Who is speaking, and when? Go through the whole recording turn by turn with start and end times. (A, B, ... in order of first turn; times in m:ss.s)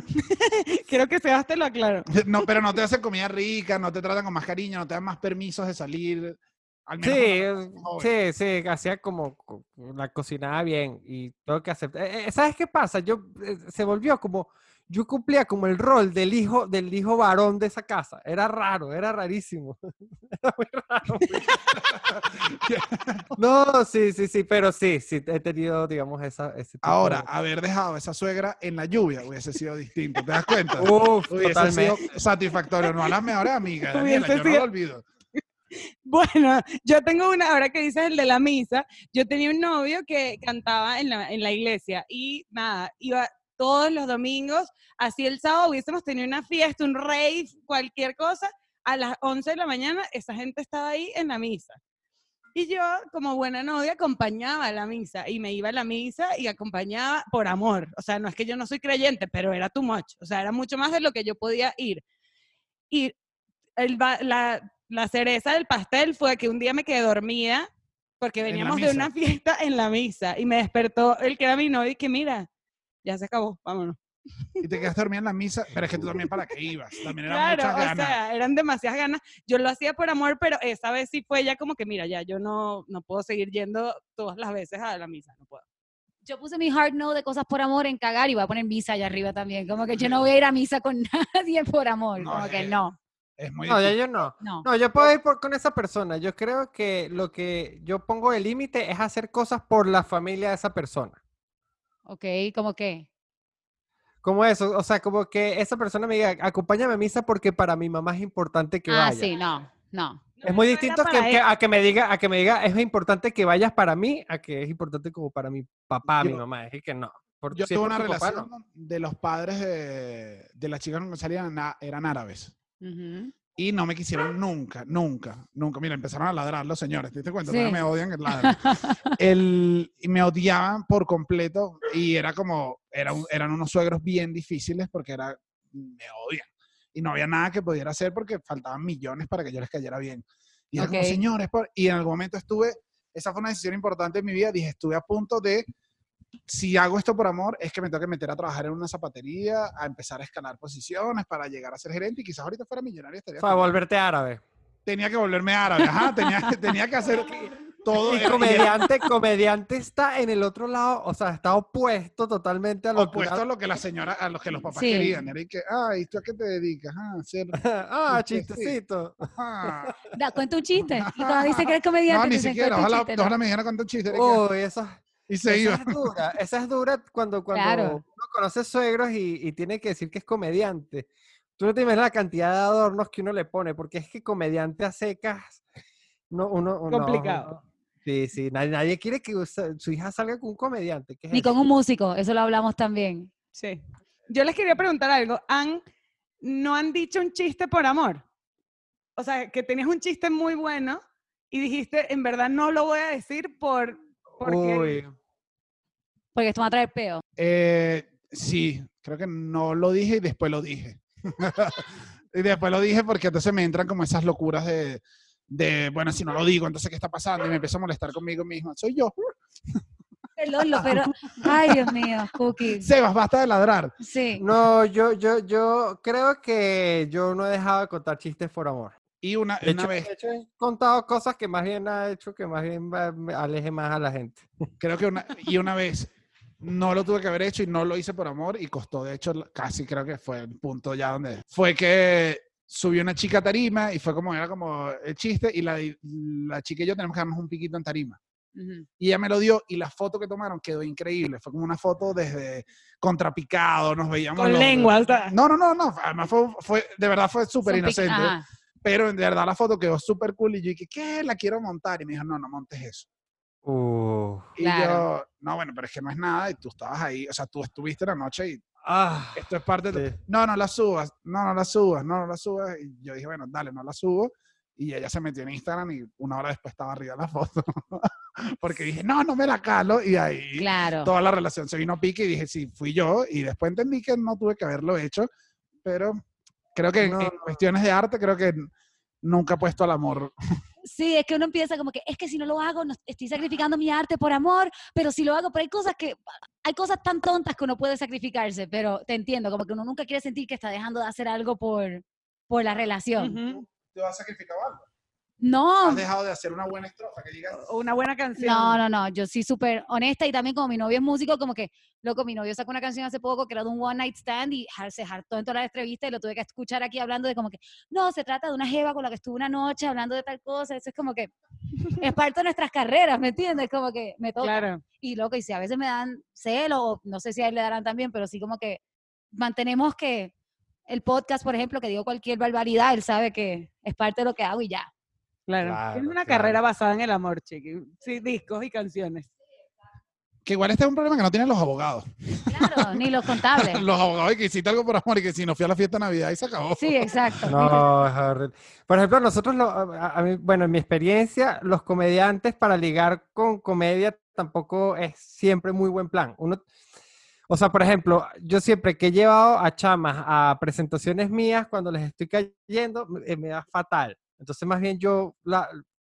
0:00.2-0:02.1 A
0:02.1-0:08.1 B
0:07.0-0:21.5 C
0:21.3-0:23.3 B
0:23.4-0:27.3 C
0:26.8-0:35.1 B
0:30.8-0:32.1 C
0:33.9-0:34.7 A
0:35.7-0:51.8 A
0:52.6-1:02.0 A
1:02.9-1:03.2 A
1:03.8-1:07.7 A
1:08.2-1:12.5 A
1:08.5-1:09.1 B
1:13.0-1:14.0 A
1:14.6-1:18.2 B
1:17.2-1:25.6 A
1:26.2-1:33.0 D
1:29.9-1:30.2 B
1:32.2-1:32.8 B
1:33.4-1:34.0 B
1:33.7-1:41.2 C
1:34.4-1:34.7 D
1:42.1-1:43.1 D
1:44.2-1:49.3 C
1:48.9-1:50.2 D
1:50.4-1:51.4 A
1:50.4-1:58.5 C
1:56.1-1:56.4 B
1:57.5-2:02.5 B
2:02.8-2:03.3 D
2:03.6-2:08.6 B
2:07.4-2:09.2 D
2:09.2-2:25.7 B
2:20.8-2:21.2 D
2:26.5-2:33.7 B
2:33.4-2:34.4 C
2:34.9-2:38.8 B
2:38.0-2:43.4 C
2:43.0-2:47.6 B
2:44.7-2:45.2 D
2:47.5-2:49.9 C
2:48.1-2:48.8 B
2:49.3-2:50.0 B
2:50.1-2:53.4 D
2:50.8-2:54.4 B
2:54.1-3:05.6 C
2:55.3-2:56.1 B
2:57.5-2:58.0 D
3:06.3-3:11.6 C
3:06.9-3:07.5 A
3:11.3-3:13.3 D
3:13.6-3:15.8 A
3:16.4-3:18.2 A
3:19.2-3:25.0 A
3:24.4-3:25.1 C
3:26.4-3:27.2 D
3:27.4-3:39.1 B
3:40.4-3:42.9 D
3:40.7-3:41.9 B
3:42.7-3:43.9 B
3:44.0-3:44.4 D
3:44.4-3:49.0 C
3:49.2-3:50.1 B
3:49.6-3:54.7 C
3:54.8-4:08.2 B
4:08.6-4:08.9 D
4:09.0-4:23.1 B
4:14.4-4:15.3 A
4:17.6-4:18.4 D
4:23.6-4:24.5 C
4:24.6-4:28.6 B
4:24.6-4:25.1 D
4:28.8-4:30.2 C
4:29.4-4:45.3 B
4:40.6-4:41.1 D
4:45.8-4:46.2 B
4:46.8-4:48.7 B
4:47.0-4:47.6 C
4:49.2-4:50.3 B
4:50.8-5:03.4 D
5:03.2-5:03.6 A
5:03.5-5:04.9 B
5:05.4-5:06.1 D
5:05.8-5:07.7 B
5:07.5-5:08.8 A
5:08.4-5:21.3 D
5:21.9-5:28.8 D
5:24.4-5:24.8 A
5:29.3-5:30.3 D
5:30.9-5:34.9 D
5:35.5-5:39.3 A
5:35.6-5:36.6 C
5:40.4-5:47.6 B
5:42.5-5:43.8 D
5:46.8-5:47.9 D
5:47.5-5:56.6 C
5:57.5-6:05.8 C